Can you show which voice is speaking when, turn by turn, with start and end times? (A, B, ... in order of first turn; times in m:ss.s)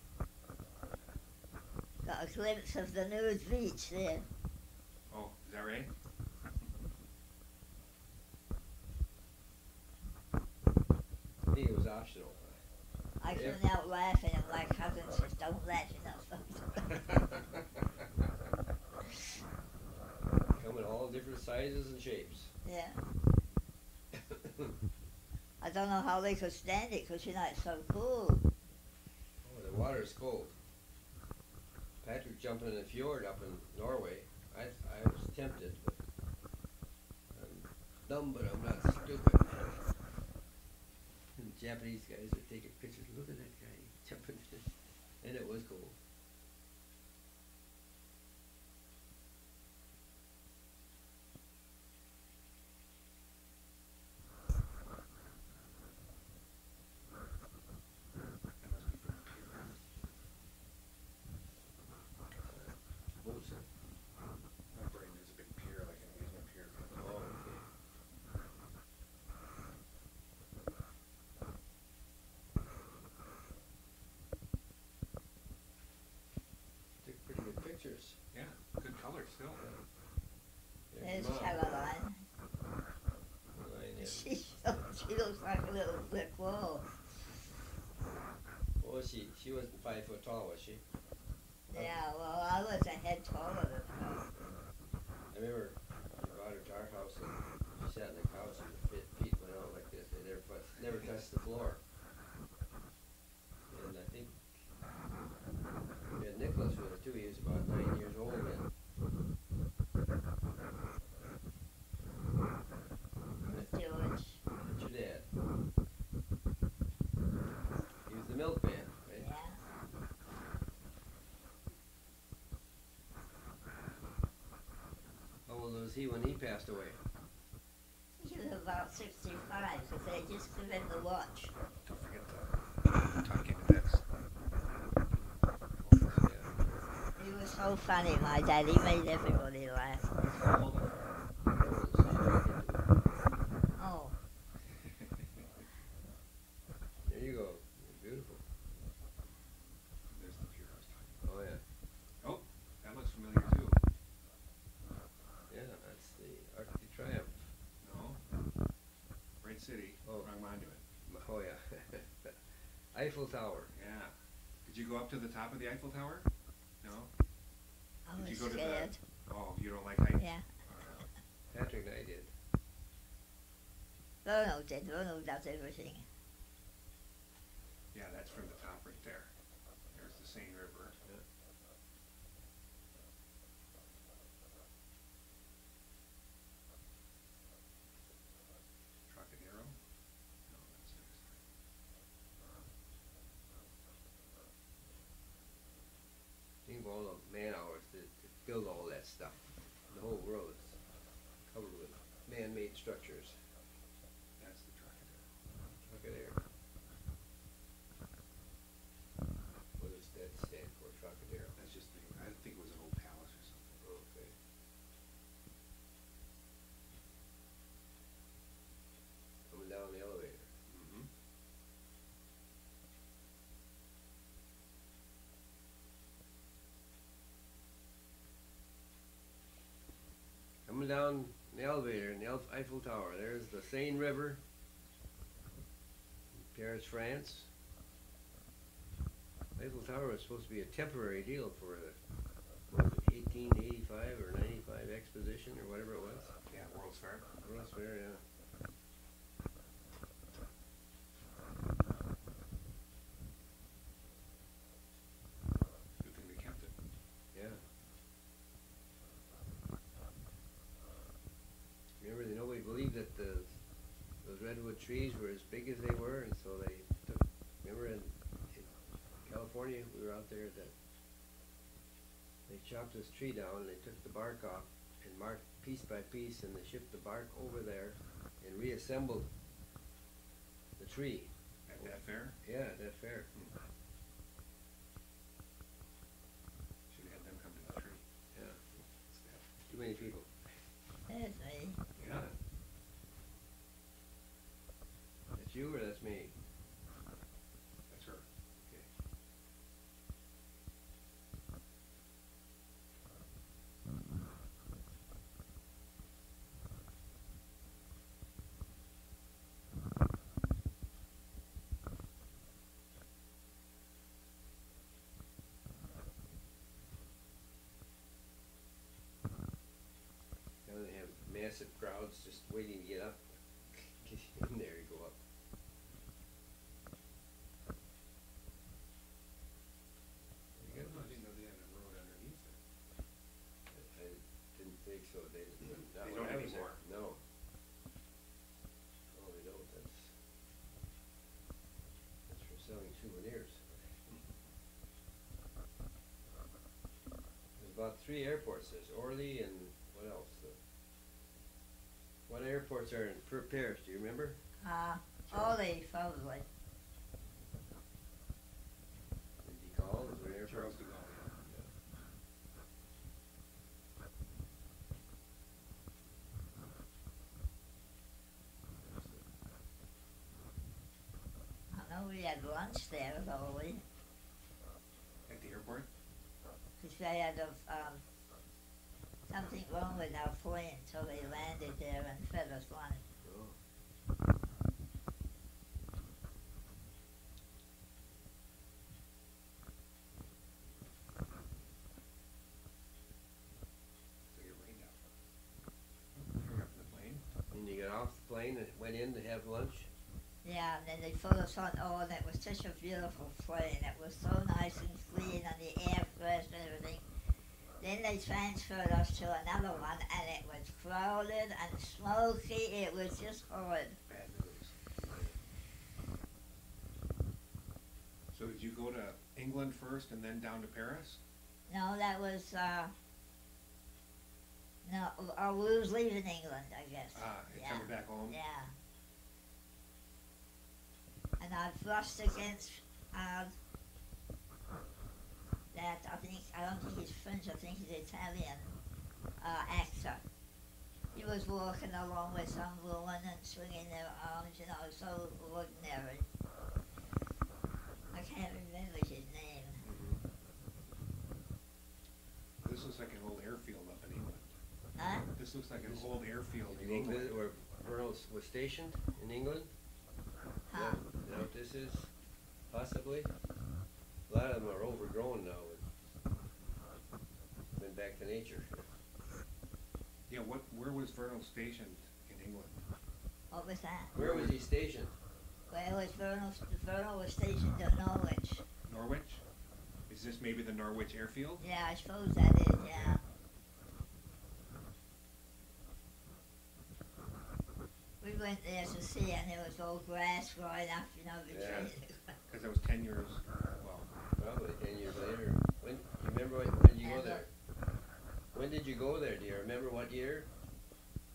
0:02.0-0:04.3 A
0:05.1-0:05.9 B
0:11.5-0:12.6 C
0:13.2-0:17.4 A
0:13.3-0:13.6 C
0:20.5-0:22.5 C
0:22.6-0:23.0 A
0:24.1-0:24.7 C
0:25.6-0:28.4 A
0:29.4-0:30.5 C
0:32.0-0:36.0 C
0:37.3-0:39.9 C
0:41.4-0:46.0 C
0:58.6-0:59.8 B
1:02.5-1:03.7 C
1:04.7-1:07.4 B
1:07.0-1:07.7 C
1:17.0-1:18.2 C
1:18.3-1:19.6 B
1:20.9-1:22.0 C
1:21.0-1:22.2 A
1:23.5-1:24.3 C
1:24.0-1:27.1 A
1:28.8-1:30.8 C
1:31.7-1:34.3 A
1:31.7-1:32.0 C
1:35.3-1:41.8 C
1:43.7-1:44.6 C
1:46.1-1:48.7 C
1:53.4-1:54.4 A
1:54.6-1:55.3 C
1:58.1-1:59.3 C
1:59.2-1:59.6 A
2:05.5-2:07.0 C
2:08.2-2:11.5 A
2:11.8-2:14.0 B
2:15.7-2:16.3 B
2:16.2-2:16.8 C
2:17.2-2:20.2 A
2:20.2-2:21.2 B
2:21.5-2:23.2 C
2:23.8-2:24.2 A
2:24.8-2:25.6 B
2:27.0-2:28.4 C
2:30.1-2:31.2 B
2:31.2-2:31.6 C
2:32.2-2:33.8 B
2:35.5-2:37.5 C
2:37.8-2:38.2 B
2:39.4-2:40.8 B
2:41.0-2:42.4 C
2:42.9-2:43.7 C
2:43.7-2:44.1 B
2:44.7-2:46.3 B
2:46.8-2:47.1 B
2:48.1-2:49.0 A
2:48.2-2:51.1 B
2:50.2-2:50.5 A
2:51.5-2:52.3 C
2:54.2-2:56.1 A
2:57.9-2:59.3 B
2:59.9-3:01.0 B
3:09.1-3:09.8 B
3:10.5-3:11.4 B
3:16.7-3:20.8 C
3:21.5-3:23.4 C
3:24.4-3:25.3 B
3:25.9-3:26.4 C
3:29.8-3:31.6 C
3:31.5-3:33.8 B
3:33.8-3:34.3 C
3:39.5-3:40.5 C
3:40.7-3:41.1 B
3:50.7-3:54.4 C
3:56.4-3:57.5 C
3:59.6-4:02.0 C
4:02.7-4:06.3 C
4:06.5-4:07.3 B
4:07.4-4:08.2 C
4:16.0-4:16.7 B
4:17.3-4:17.6 C
4:22.0-4:23.5 C
4:24.2-4:28.7 C
4:29.2-4:30.7 C
4:32.5-4:39.3 C
4:40.8-4:41.9 C
4:41.7-4:42.4 B
4:42.4-4:43.3 C
4:43.3-4:43.6 B
4:46.9-4:48.0 B
4:48.3-4:48.6 C
4:48.9-4:50.1 B
4:49.7-4:50.3 C
4:51.1-4:51.8 A
4:52.0-4:52.3 B
4:52.0-4:52.4 C
4:55.3-4:56.3 C
4:57.9-4:58.3 B
4:58.6-4:58.9 C
5:20.6-5:25.2 C
5:30.6-5:31.2 C
5:30.7-5:32.6 B
5:33.7-5:37.2 C
5:35.6-5:36.8 B
5:39.1-5:40.2 C
5:42.3-5:43.7 C
5:47.6-5:50.6 C
5:52.3-5:54.4 C
5:54.6-5:56.5 A
5:55.3-5:55.6 B
5:59.4-6:00.7 C
6:00.4-6:01.4 B
6:08.8-6:09.2 C
6:11.7-6:13.8 A
6:15.3-6:15.9 B
6:16.8-6:18.0 A
6:19.3-6:23.0 A
6:23.2-6:23.6 C
6:34.3-6:35.0 B
6:36.2-6:37.2 B
6:37.5-6:39.9 C
6:40.4-6:47.0 A
6:47.8-6:54.0 A
6:54.1-6:54.9 B
6:55.1-6:55.4 C
6:58.3-7:01.2 B
7:01.7-7:02.9 A
7:04.8-7:08.7 A
7:07.1-7:08.4 B
7:11.4-7:13.5 A
7:15.7-7:18.8 A
7:19.4-7:20.2 A
7:21.1-7:26.3 A
7:28.1-7:29.8 A
7:29.8-7:30.1 B
7:32.6-7:34.5 B
7:35.0-7:35.3 A
7:35.4-7:37.4 B
7:35.8-7:39.7 C
7:40.7-7:41.0 A
7:40.7-7:42.1 C
7:42.7-7:43.3 C
7:44.3-7:45.9 C
7:47.7-7:48.9 C
7:50.3-7:52.8 B
7:53.5-7:54.1 A
7:54.2-7:55.1 C
7:54.2-7:54.6 B
7:55.7-7:58.6 A
7:58.9-7:59.4 B
8:00.1-8:01.6 B
8:01.6-8:03.2 A
8:08.2-8:12.4 A
8:11.5-8:11.9 C
8:11.6-8:11.9 B
8:12.5-8:14.2 B
8:14.4-8:17.5 C
8:17.0-8:17.4 A
8:18.5-8:20.5 C